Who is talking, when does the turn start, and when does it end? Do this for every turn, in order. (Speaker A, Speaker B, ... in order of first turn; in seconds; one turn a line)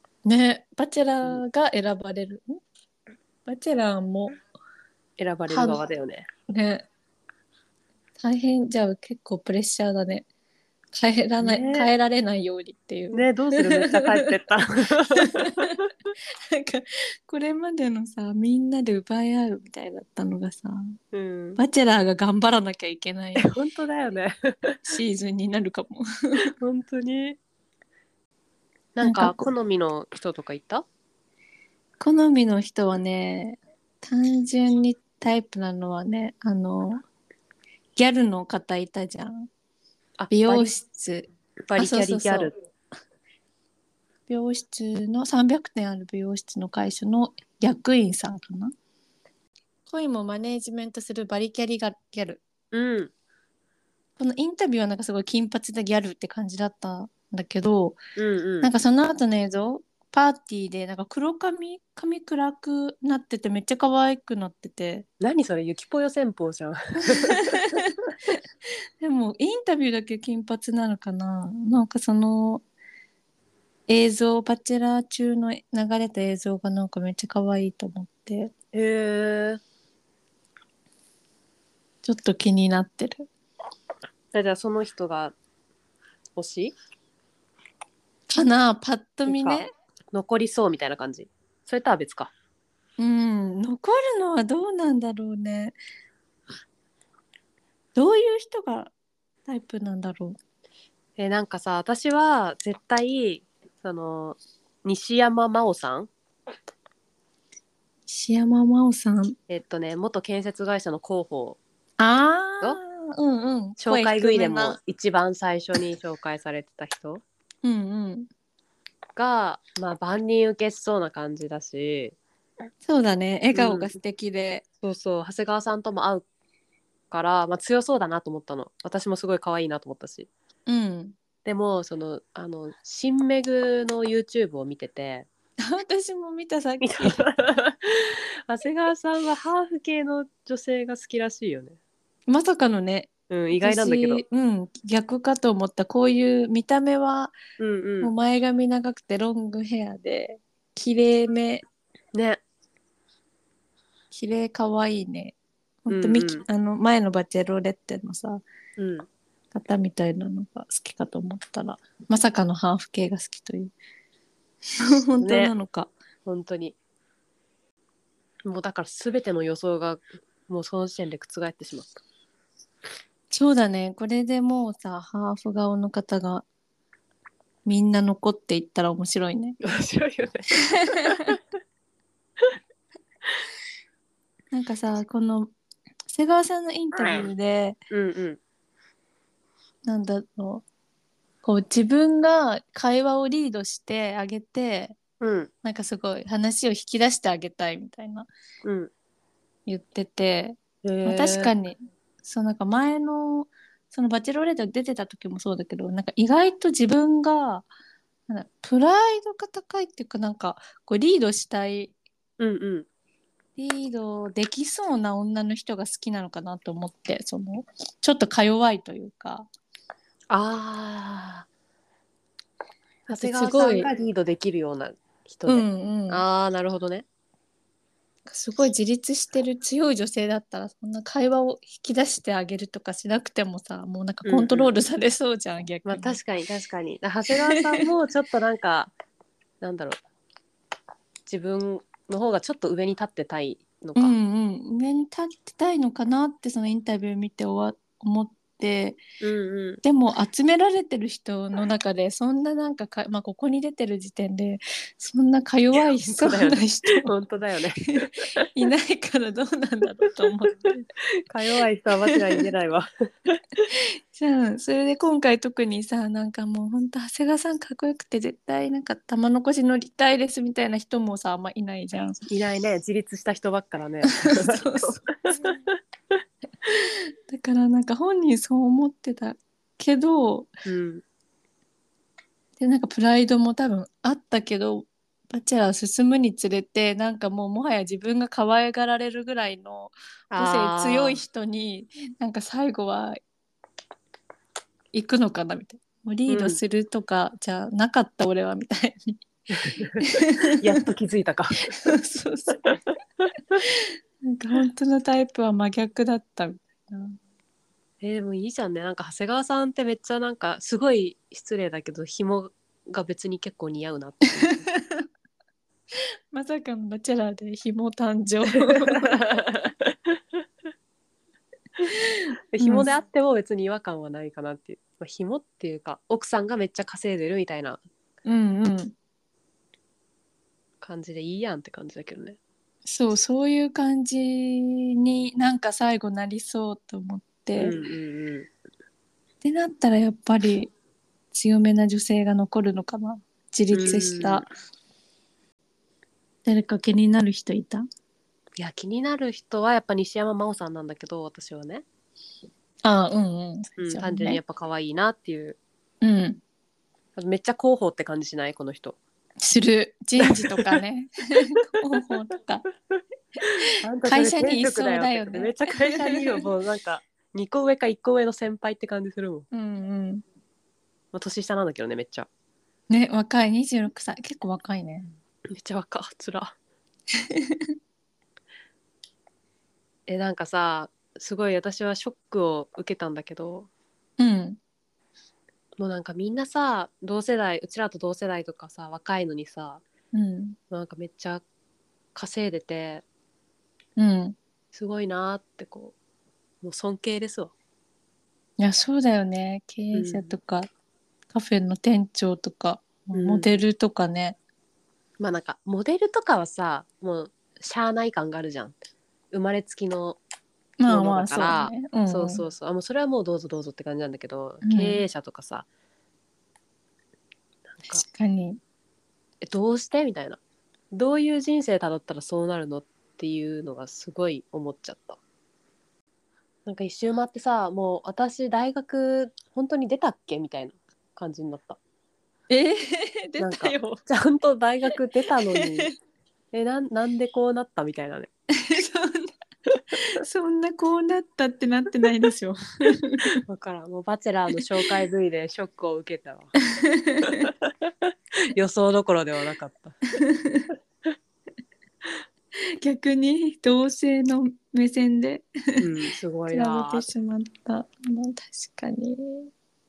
Speaker A: 0.2-2.5
Speaker A: 3.5-4.4
Speaker B: 5.2-6.3
Speaker A: 5.5-5.8
Speaker A: 6.5-6.9
Speaker A: 8.2-10.3
Speaker A: 10.9-14.3
Speaker B: 11.4-11.9
Speaker B: 13.1-15.8
Speaker A: 15.2-15.7
Speaker A: 16.5-21.0
Speaker B: 21.1-21.6
Speaker A: 21.6-23.5
Speaker B: 23.4-24.8
Speaker A: 24.9-26.1
Speaker B: 26.6-27.4
Speaker B: 28.9-30.9
Speaker A: 29.0-29.5
Speaker A: 32.0-37.0
Speaker A: 38.0-39.5
Speaker B: 40.2-40.7
Speaker A: 40.3-42.5
Speaker B: 41.7-42.5
Speaker A: 44.3-48.7
Speaker A: 49.9-52.4
Speaker B: 52.7-53.1
Speaker A: 54.2-58.0
Speaker B: 58.2-58.7
Speaker A: 58.6-65.1
Speaker B: 65.2-67.7
Speaker A: 67.5-67.9
Speaker A: 69.0-72.6
Speaker A: 73.9-78.5
Speaker B: 78.7-79.6
Speaker A: 82.0-83.3
Speaker B: 84.3-85.3
Speaker B: 86.4-86.7
Speaker A: 88.3-89.7
Speaker B: 89.3-92.3
Speaker A: 93.0-95.8
Speaker A: 98.0-98.9
Speaker A: 99.5-100.4
Speaker B: 101.2-106.1
Speaker A: 108.1-109.4
Speaker B: 109.5-111.6
Speaker A: 112.0-114.8
Speaker B: 113.8-117.2
Speaker A: 117.6-118.3
Speaker B: 119.2-122.2
Speaker A: 122.8-124.6
Speaker B: 123.5-123.9
Speaker B: 124.8-126.2
Speaker B: 127.1-130.3
Speaker A: 130.7-131.2
Speaker B: 131.4-135.3
Speaker A: 135.6-137.2
Speaker B: 136.8-141.8
Speaker A: 142.3-147.3
Speaker B: 143.3-144.2
Speaker B: 147.6-148.1
Speaker A: 148.0-151.6
Speaker B: 152.1-152.4
Speaker A: 154.1-158.4
Speaker B: 155.9-156.4
Speaker B: 158.8-159.1
Speaker A: 159.5-163.7
Speaker A: 165.0-165.9
Speaker B: 165.2-165.5
Speaker B: 166.2-166.8
Speaker B: 168.5-172.0
Speaker A: 173.3-176.4
Speaker A: 177.7-179.6
Speaker B: 179.6-181.4
Speaker A: 184.5-185.5
Speaker A: 186.1-187.8
Speaker B: 187.0-187.3
Speaker B: 187.9-188.4
Speaker A: 189.8-190.7
Speaker A: 191.4-195.0
Speaker B: 195.2-195.5
Speaker A: 195.6-198.3
Speaker B: 198.7-198.9
Speaker A: 199.7-207.7
Speaker B: 200.8-201.5
Speaker A: 208.3-211.9
Speaker B: 212.4-212.9
Speaker A: 213.6-219.5
Speaker B: 220.3-221.5
Speaker B: 223.1-227.1
Speaker A: 223.1-223.9
Speaker A: 225.5-226.2
Speaker A: 228.3-236.2
Speaker B: 234.2-234.7
Speaker B: 235.8-238.9
Speaker B: 239.6-240.0
Speaker B: 241.3-244.2
Speaker A: 244.0-249.0
Speaker B: 249.2-249.8
Speaker A: 249.8-257.1
Speaker B: 255.8-258.5
Speaker A: 257.9-260.9
Speaker B: 261.3-263.6
Speaker A: 264.1-272.2
Speaker B: 272.3-275.8
Speaker A: 274.1-275.6
Speaker A: 276.7-280.5
Speaker B: 280.6-281.0
Speaker A: 282.6-293.2
Speaker B: 290.3-291.2
Speaker A: 294.9-299.2
Speaker B: 296.3-296.6
Speaker B: 299.5-302.0
Speaker A: 300.0-300.5
Speaker A: 301.8-302.8
Speaker A: 303.6-307.2
Speaker B: 308.0-314.6
Speaker A: 314.4-315.0
Speaker A: 316.3-319.2
Speaker B: 318.5-320.2
Speaker A: 321.9-322.9
Speaker B: 322.5-327.8
Speaker A: 328.2-328.9
Speaker B: 330.8-332.4
Speaker A: 332.9-337.8
Speaker B: 337.6-338.5
Speaker A: 339.4-340.7
Speaker A: 341.3-344.5
Speaker B: 343.7-344.4
Speaker A: 346.4-347.9
Speaker B: 348.6-351.9
Speaker A: 352.8-354.4
Speaker B: 353.8-355.6
Speaker A: 356.0-356.4
Speaker B: 357.2-359.0
Speaker A: 359.4-362.6
Speaker B: 360.2-360.7
Speaker A: 363.4-366.5
Speaker B: 363.8-369.5
Speaker A: 369.5-370.2
Speaker B: 371.1-372.3
Speaker A: 372.9-375.1
Speaker B: 375.5-376.5
Speaker B: 380.1-383.7
Speaker A: 384.2-384.6
Speaker B: 385.8-389.8
Speaker A: 390.1-390.6
Speaker B: 390.7-391.4
Speaker B: 392.1-393.0
Speaker A: 394.0-394.4
Speaker B: 394.7-395.9
Speaker B: 396.6-397.5
Speaker A: 398.6-400.7
Speaker B: 399.9-400.4
Speaker A: 401.3-404.4
Speaker B: 403.1-403.6
Speaker B: 405.2-408.7
Speaker B: 409.3-410.2
Speaker A: 410.8-412.4
Speaker B: 410.9-415.7
Speaker A: 414.6-415.0
Speaker B: 417.7-418.0
Speaker A: 417.9-418.6
Speaker B: 419.4-420.4
Speaker B: 420.9-425.2
Speaker B: 426.7-431.8
Speaker A: 432.5-434.0
Speaker B: 433.4-435.9
Speaker A: 435.5-435.9
Speaker B: 436.5-438.3
Speaker A: 438.6-439.3
Speaker A: 440.0-443.2
Speaker B: 443.4-446.5
Speaker A: 446.6-447.5
Speaker B: 447.2-450.2
Speaker A: 450.2-450.7
Speaker A: 452.8-455.8
Speaker B: 455.8-457.1
Speaker A: 456.5-459.5